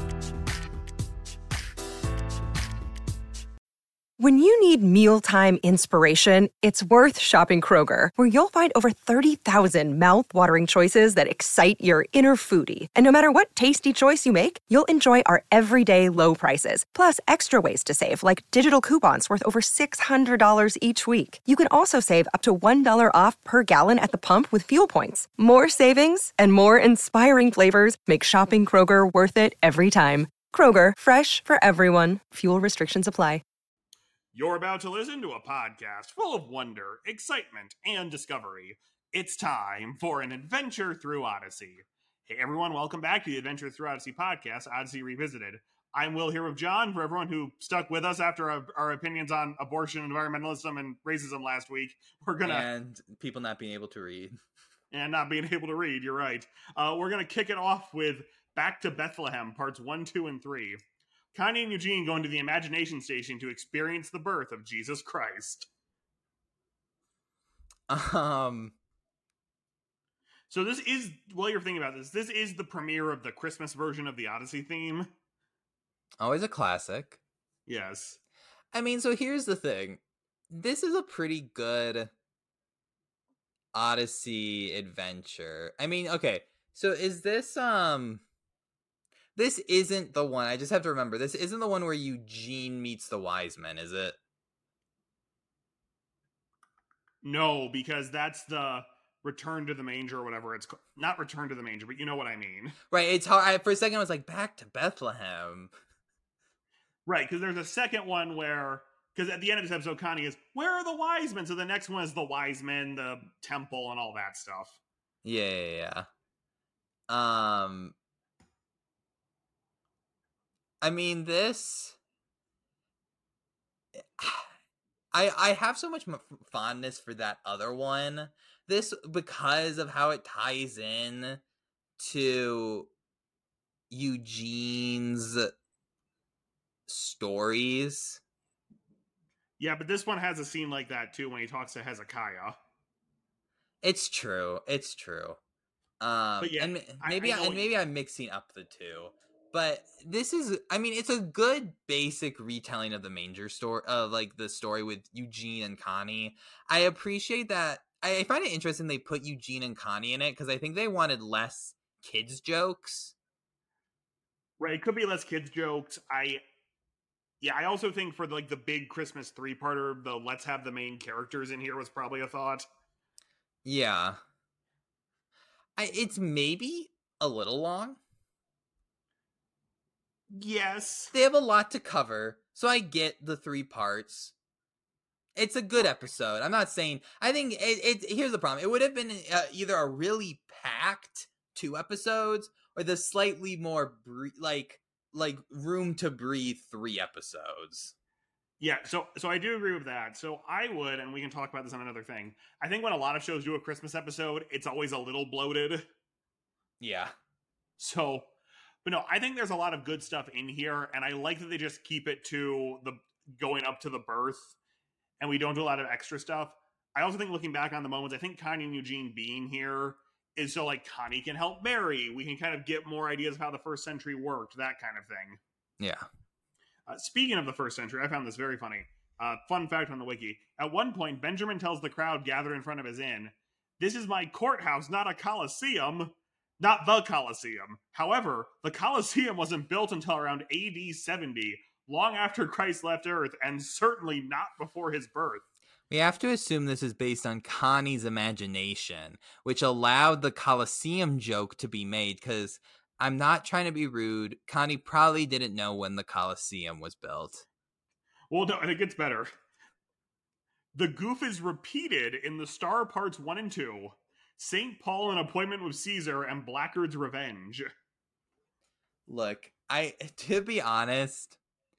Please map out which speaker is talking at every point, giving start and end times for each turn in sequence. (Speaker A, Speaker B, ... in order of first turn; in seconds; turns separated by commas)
Speaker A: 4.2-33.4, Speaker B: 34.3-52.7, Speaker C: 52.4-54.4, Speaker B: 54.9-60.8, Speaker B: 61.3-65.7, Speaker C: 67.9-68.7, Speaker B: 70.5-75.1, Speaker C: 76.2-77.2, Speaker B: 77.7-78.2, Speaker C: 78.7-82.1, Speaker C: 83.7-88.2, Speaker C: 89.3-94.2, Speaker B: 97.2-102.8, Speaker C: 102.9-105.7, Speaker B: 107.0-114.8, Speaker C: 115.2-116.1, Speaker C: 117.1-117.9, Speaker C: 120.8-122.0, Speaker C: 124.0-124.5, Speaker C: 125.1-131.4, Speaker C: 132.0-132.9, Speaker C: 133.9-135.5, Speaker C: 136.9-138.2, Speaker B: 139.6-142.6, Speaker C: 143.8-145.4, Speaker C: 146.0-163.1, Speaker B: 146.4-147.6, Speaker B: 164.6-166.4, Speaker B: 167.4-172.7, Speaker C: 173.6-174.2, Speaker C: 175.8-178.0, Speaker B: 180.3-181.1, Speaker C: 181.1-184.3, Speaker C: 185.3-197.9, Speaker B: 198.6-205.8, Speaker C: 206.8-207.1, Speaker B: 207.8-208.3, Speaker B: 208.8-214.5, Speaker B: 215.2-225.4, Speaker C: 225.8-226.0, Speaker B: 226.9-245.4, Speaker C: 245.9-257.4, Speaker B: 258.3-259.3, Speaker B: 260.7-267.7, Speaker C: 269.1-271.4